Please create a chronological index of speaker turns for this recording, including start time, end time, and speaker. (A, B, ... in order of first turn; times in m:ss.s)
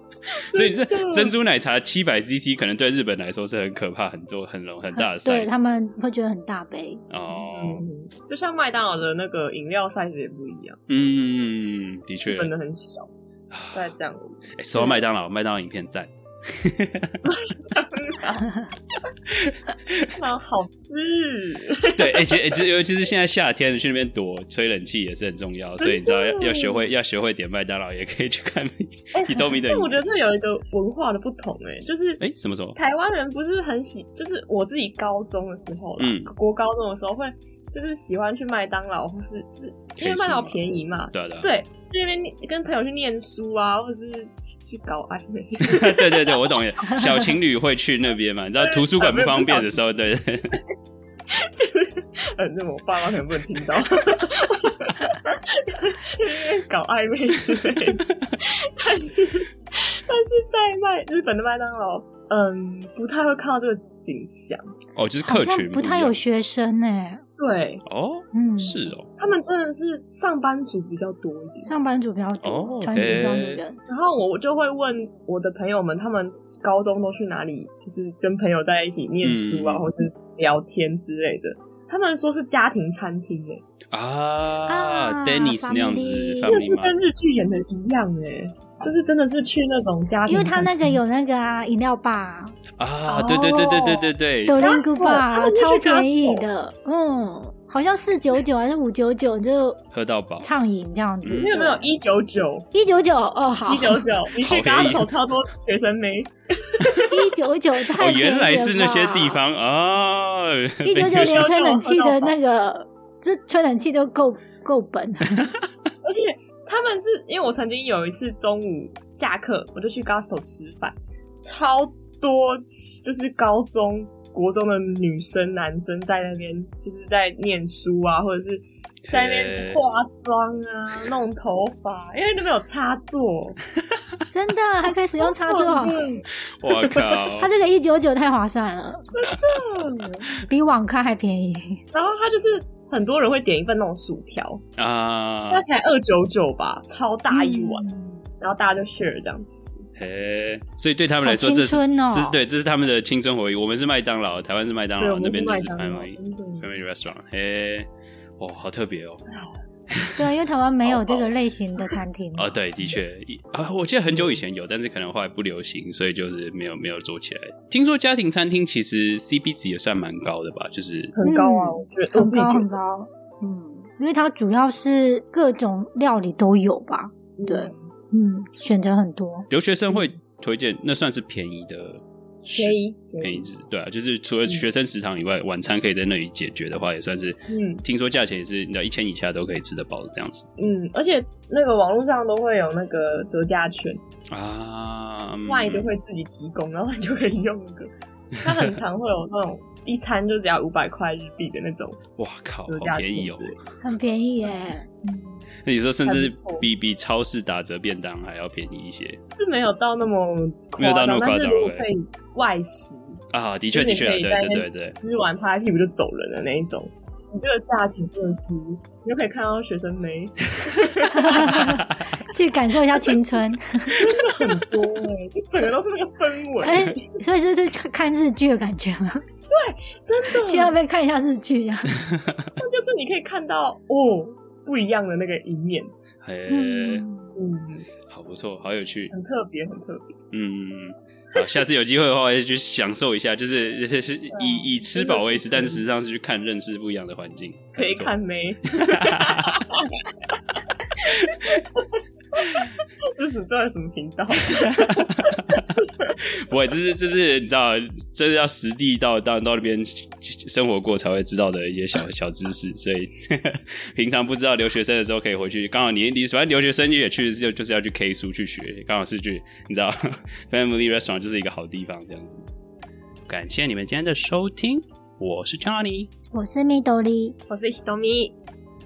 0:00.3-0:05.6 A
0:00.5-0:01.4 B
0:04.9-0:07.0 C
0:07.1-0:07.9 A
0:07.3-0:10.8 B
0:10.9-0:12.5 A
0:12.3-0:13.1 B
0:13.5-0:13.9 A
0:13.7-0:14.4 B
0:14.6-0:17.2 A
0:14.8-0:15.0 C
0:17.3-0:18.6 B
0:19.4-0:20.0 A
0:20.2-0:22.4 B
0:22.0-0:30.0 A
0:25.8-0:26.8 B
0:29.1-0:32.2 B
0:32.2-0:32.8 A
0:32.8-0:46.3 B
0:36.0-0:36.3 A
0:40.0-0:41.5 A
0:45.6-0:50.6 A
0:48.6-0:49.8 B
0:51.4-1:04.6 B
1:05.0-1:06.2 A
1:05.2-1:07.2 C
1:07.4-1:07.8 B
1:07.9-1:09.1 A
1:08.3-1:08.9 C
1:09.2-1:11.7 B
1:11.6-1:13.8 C
1:12.4-1:13.6 A
1:13.9-1:23.6 B
1:19.2-1:19.9 A
1:23.9-1:27.0 A
1:24.7-1:26.6 C
1:26.5-1:31.0 B
1:30.3-1:32.6 C
1:32.8-1:34.7 A
1:33.1-1:34.1 B
1:34.5-1:39.8 C
1:34.6-1:36.5 B
1:39.9-1:40.5 A
1:40.4-1:41.9 C
1:41.2-1:41.6 A
1:41.4-1:42.7 B
1:42.7-1:44.0 C
1:43.7-1:47.2 B
1:44.4-1:45.1 A
1:47.1-1:49.4 C
1:48.0-1:51.5 A
1:50.8-1:55.4 C
1:51.3-1:52.4 B
1:56.0-2:13.6 B
2:09.1-2:09.8 A
2:14.3-2:16.0 C
2:15.2-2:16.3 B
2:16.6-2:17.5 A
2:17.4-2:19.0 C
2:19.1-2:20.3 B
2:20.4-2:21.8 C
2:21.9-2:24.6 B
2:24.8-2:25.6 A
2:25.5-2:27.8 B
2:27.3-2:28.3 C
2:28.4-2:29.8 B
2:30.0-2:37.9 A
2:31.2-2:32.4 C
2:35.0-2:36.7 B
2:38.4-2:39.2 A
2:39.9-2:40.2 A
2:40.2-2:42.5 C
2:40.9-2:41.3 B
2:42.3-2:51.1 A
2:44.1-2:44.4 B
2:51.2-2:52.8 B
2:51.2-2:59.5 C
2:57.4-2:57.9 B
2:59.5-3:10.5 A
3:02.6-3:03.5 B
3:07.5-3:07.8 B
3:10.6-3:14.0 B
3:14.3-3:15.9 A
3:15.5-3:17.9 B
3:18.4-3:22.0 B
3:22.2-3:23.6 A
3:22.7-3:23.6 B
3:23.8-3:25.5 C
3:25.6-3:29.2 A
3:26.0-3:26.7 B
3:29.3-3:33.2 B
3:30.8-3:31.9 A
3:33.3-3:35.0 A
3:33.7-3:41.6 B
3:41.1-3:44.0 C
3:41.5-3:42.0 A
3:43.9-3:47.2 B
3:46.6-3:49.2 C
3:49.5-3:50.8 B
3:50.3-3:52.0 C
3:52.0-3:52.5 A
3:52.6-3:55.9 B
3:56.2-3:57.0 A
3:56.5-3:57.4 C
3:57.4-3:57.9 B
3:58.1-3:59.1 A
3:59.1-4:00.2 B
4:00.3-4:08.1 A
4:04.3-4:05.8 B
4:07.8-4:09.8 B
4:08.8-4:09.6 A
4:11.1-4:11.6 B
4:12.4-4:15.8 B
4:14.6-4:15.7 A
4:16.2-4:30.0 A
4:30.5-4:32.5 A
4:33.3-4:36.1 A
4:36.3-4:37.4 C
4:37.5-4:38.4 B